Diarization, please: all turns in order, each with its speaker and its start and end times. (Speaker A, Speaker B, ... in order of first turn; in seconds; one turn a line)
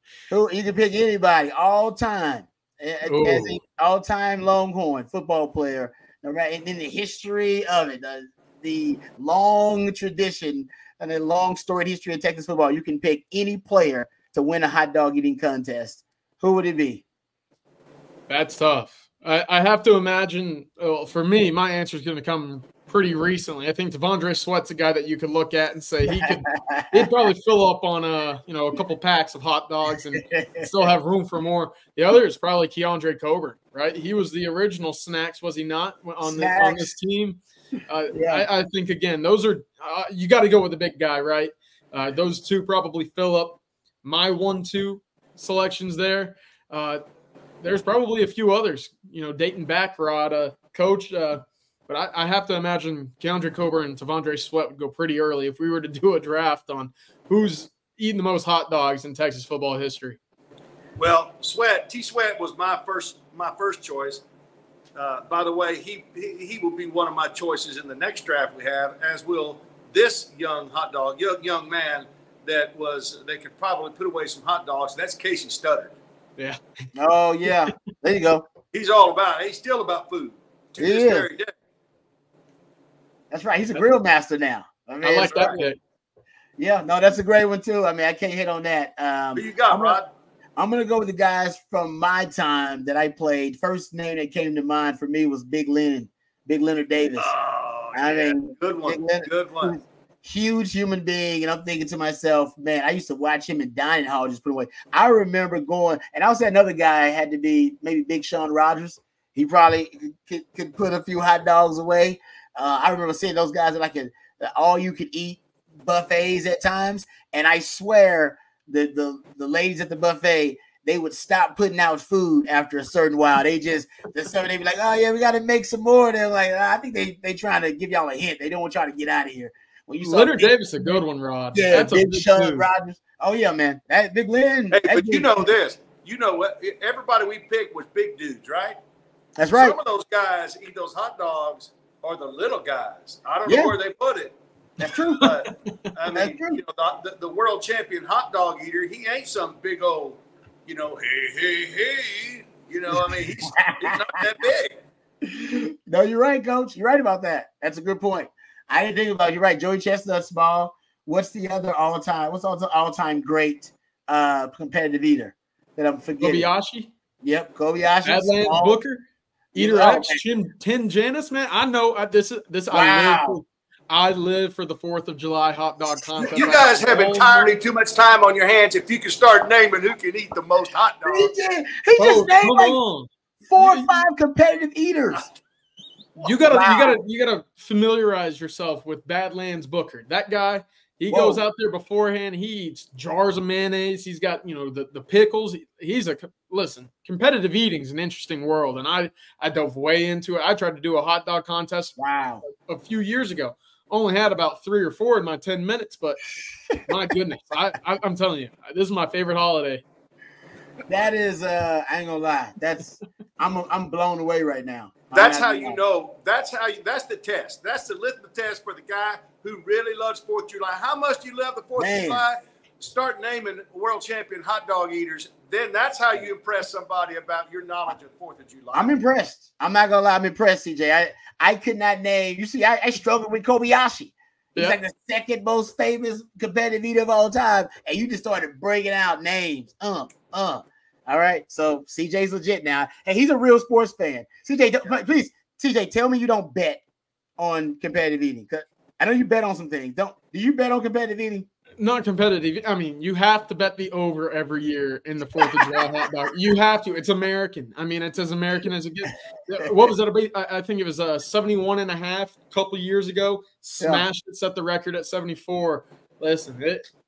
Speaker A: 0.3-17.0
Speaker B: 3.1-3.6
Speaker B: 18.3-47.0
Speaker A: 26.1-27.1
Speaker A: 30.1-30.7
Speaker A: 36.2-36.9
Speaker A: 38.1-38.5
Speaker B: 47.6-60.2
Speaker C: 61.0-64.2
Speaker C: 65.0-75.9
Speaker A: 76.9-78.4
Speaker C: 78.7-81.5
Speaker A: 80.8-81.3
Speaker A: 83.3-85.6
Speaker B: 85.0-85.8
Speaker A: 86.6-90.0
Speaker C: 89.3-90.0
Speaker A: 90.6-97.3
Speaker C: 97.2-99.7
Speaker A: 97.9-130.9
Speaker B: 130.0-132.7
Speaker A: 131.5-135.4
Speaker C: 134.7-138.8
Speaker A: 139.4-139.8
Speaker C: 139.5-144.3
Speaker A: 143.5-143.7
Speaker A: 144.8-145.2
Speaker B: 145.2-145.9
Speaker C: 145.2-154.8
Speaker A: 146.1-146.6
Speaker A: 152.9-154.2
Speaker A: 155.2-166.5
Speaker B: 166.2-166.9
Speaker A: 167.2-168.8
Speaker B: 168.0-177.5
Speaker A: 169.5-170.2
Speaker A: 172.7-173.4
Speaker C: 176.2-181.3
Speaker A: 181.0-182.8
Speaker B: 182.0-184.0
Speaker A: 183.4-185.3
Speaker A: 186.2-186.9
Speaker B: 186.2-206.2
Speaker A: 191.1-191.4
Speaker A: 202.0-202.4
Speaker B: 206.9-209.8
Speaker A: 210.9-215.8
Speaker C: 215.1-228.9
Speaker A: 221.8-222.2
Speaker A: 228.7-246.8
Speaker A: 247.4-251.5
Speaker B: 251.8-266.9
Speaker A: 255.4-255.8
Speaker A: 263.8-264.1